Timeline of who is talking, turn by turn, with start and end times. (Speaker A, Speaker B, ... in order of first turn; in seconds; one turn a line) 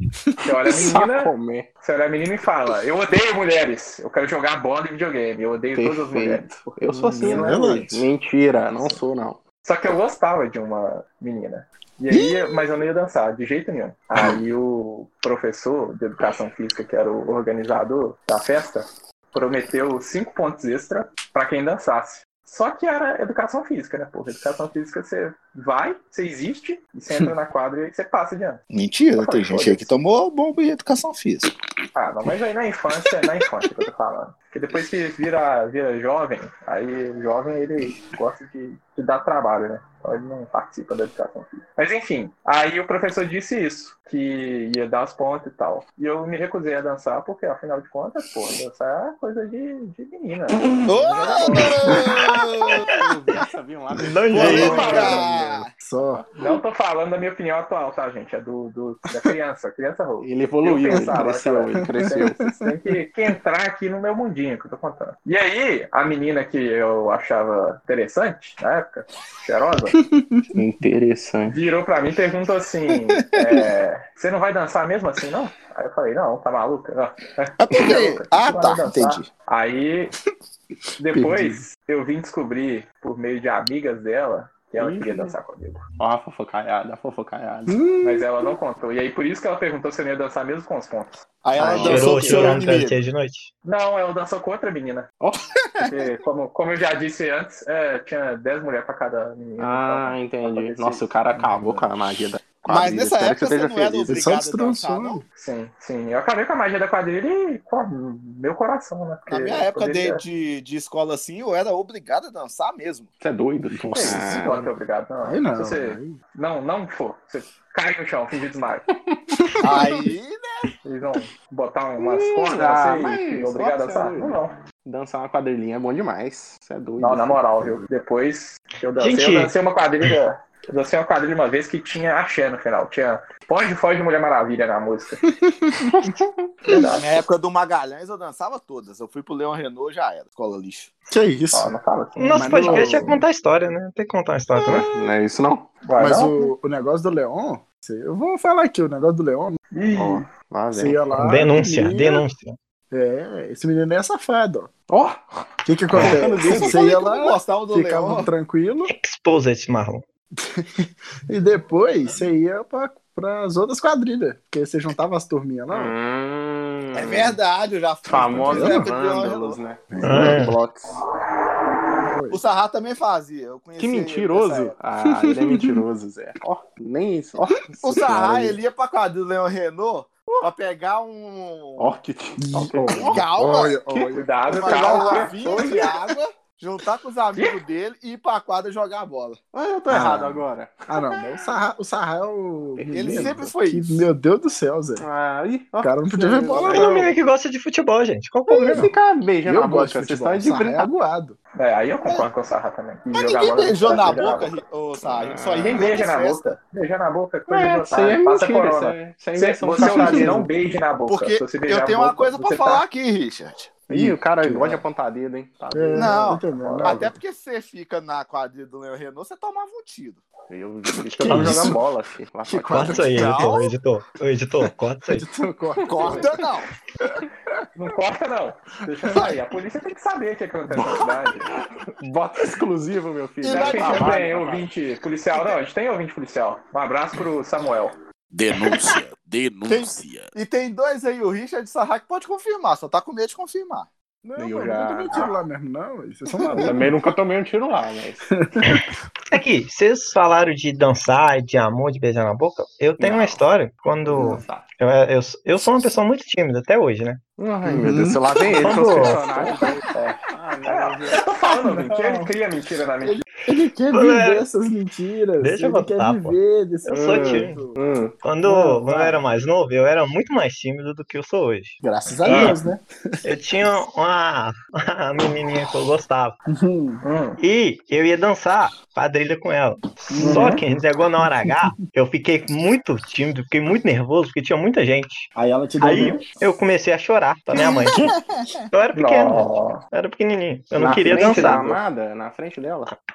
Speaker A: 0.3-0.8
Speaker B: 0.4-7.9
Speaker C: 0.7-1.7
Speaker C: 5.8-9.4
Speaker A: 7.1-8.1
Speaker B: 9.6-28.6
Speaker D: 28.7-31.6
Speaker B: 29.1-29.9
Speaker B: 31.9-52.1
Speaker C: 50.6-52.2
Speaker D: 50.9-52.9
Speaker C: 52.8-55.6
Speaker E: 54.0-55.2
Speaker D: 54.3-55.7
Speaker B: 54.5-55.2
Speaker A: 55.7-56.3
Speaker B: 56.4-70.0
Speaker C: 60.2-62.5
Speaker A: 61.9-62.7
Speaker A: 70.0-70.5
Speaker C: 70.5-71.6
Speaker B: 71.5-80.1
Speaker D: 77.6-79.3
Speaker B: 81.0-85.8
Speaker A: 81.1-81.6
Speaker C: 84.8-85.4
Speaker C: 86.0-87.8
Speaker A: 87.7-88.6
Speaker B: 88.0-92.6
Speaker D: 91.4-93.0
Speaker C: 91.6-92.2
Speaker E: 91.8-93.5
Speaker B: 93.7-95.1
Speaker B: 95.8-101.5
Speaker C: 99.6-104.2
Speaker A: 101.6-101.9
Speaker D: 102.7-105.2
Speaker A: 104.1-105.2
Speaker B: 105.4-110.2
Speaker D: 109.3-113.1
Speaker C: 113.2-114.7
Speaker A: 113.7-114.6
Speaker B: 114.0-118.9
Speaker A: 115.2-116.2
Speaker A: 119.4-120.1
Speaker D: 119.6-120.7
Speaker B: 120.8-124.6
Speaker C: 122.0-127.8
Speaker B: 127.0-135.2
Speaker E: 129.0-129.6
Speaker A: 135.3-136.2
Speaker C: 135.9-136.3
Speaker B: 136.7-137.2
Speaker D: 136.9-140.9
Speaker A: 141.1-141.8
Speaker B: 141.5-143.1
Speaker E: 142.2-144.9
Speaker A: 142.3-143.2
Speaker C: 144.7-145.7
Speaker B: 145.8-146.5
Speaker A: 146.0-149.6
Speaker B: 149.7-150.3
Speaker C: 149.9-151.1
Speaker A: 150.7-152.2
Speaker E: 151.2-152.6
Speaker A: 152.9-154.7
Speaker C: 154.9-156.8
Speaker A: 155.7-158.9
Speaker D: 156.4-158.3
Speaker E: 158.9-160.1
Speaker A: 160.4-166.0
Speaker C: 165.7-167.4
Speaker D: 166.9-169.6
Speaker C: 168.1-170.9
Speaker A: 168.4-168.9
Speaker A: 169.9-170.5
Speaker E: 170.0-170.6
Speaker A: 172.1-172.4
Speaker D: 172.3-174.8
Speaker C: 173.8-178.6
Speaker A: 175.2-175.8
Speaker D: 177.8-181.9
Speaker C: 181.8-183.3
Speaker A: 182.4-185.2
Speaker D: 183.1-183.8
Speaker C: 183.9-186.1
Speaker B: 184.1-185.4
Speaker D: 184.5-189.4
Speaker C: 189.5-191.2
Speaker A: 189.9-190.3
Speaker A: 190.9-195.0
Speaker C: 192.8-193.4
Speaker D: 192.9-194.1
Speaker C: 195.0-197.2
Speaker A: 195.8-197.0
Speaker E: 196.7-198.9
Speaker C: 198.5-200.9
Speaker A: 199.4-201.4
Speaker B: 201.6-204.6
Speaker D: 202.0-202.3
Speaker D: 203.1-206.6
Speaker C: 205.1-206.0
Speaker B: 205.6-212.8
Speaker C: 207.5-210.5
Speaker D: 209.8-210.2
Speaker A: 209.8-210.4
Speaker D: 211.1-213.8
Speaker C: 213.9-216.4
Speaker A: 213.9-214.8
Speaker A: 215.7-217.2
Speaker D: 215.9-220.2
Speaker B: 216.6-217.1
Speaker C: 220.5-223.3
Speaker A: 221.1-221.8
Speaker E: 221.3-221.7
Speaker A: 222.4-223.3
Speaker E: 222.7-225.3
Speaker D: 223.0-223.7
Speaker A: 225.1-226.4
Speaker D: 225.9-226.7
Speaker C: 225.9-226.3
Speaker B: 227.8-231.5
Speaker A: 229.0-229.3
Speaker C: 231.8-234.7
Speaker D: 233.4-234.2
Speaker B: 233.5-238.0
Speaker F: 238.3-240.3
Speaker D: 239.7-243.9
Speaker A: 244.2-246.9
Speaker C: 244.4-245.3
Speaker C: 246.5-248.3
Speaker A: 248.5-248.8
Speaker E: 248.7-257.2
Speaker C: 253.0-253.4
Speaker C: 254.1-254.7
Speaker A: 254.2-254.4
Speaker C: 257.4-261.2
Speaker A: 257.6-259.9
Speaker E: 258.6-259.3
Speaker B: 259.3-263.3
Speaker A: 261.4-262.3
Speaker A: 263.0-267.9
Speaker E: 263.9-264.4
Speaker E: 265.4-267.6
Speaker C: 266.9-268.2
Speaker E: 268.2-272.6
Speaker A: 268.4-269.2
Speaker A: 271.8-273.3
Speaker B: 272.2-272.6
Speaker E: 273.2-276.4
Speaker A: 276.5-277.0
Speaker B: 277.0-277.4
Speaker E: 277.4-288.1
Speaker A: 280.1-280.6
Speaker B: 280.2-280.6
Speaker A: 281.2-281.8
Speaker A: 285.4-286.3
Speaker B: 285.9-286.3
Speaker A: 287.6-288.1
Speaker E: 288.7-291.7
Speaker B: 288.9-289.8
Speaker C: 290.8-292.9
Speaker B: 290.9-291.6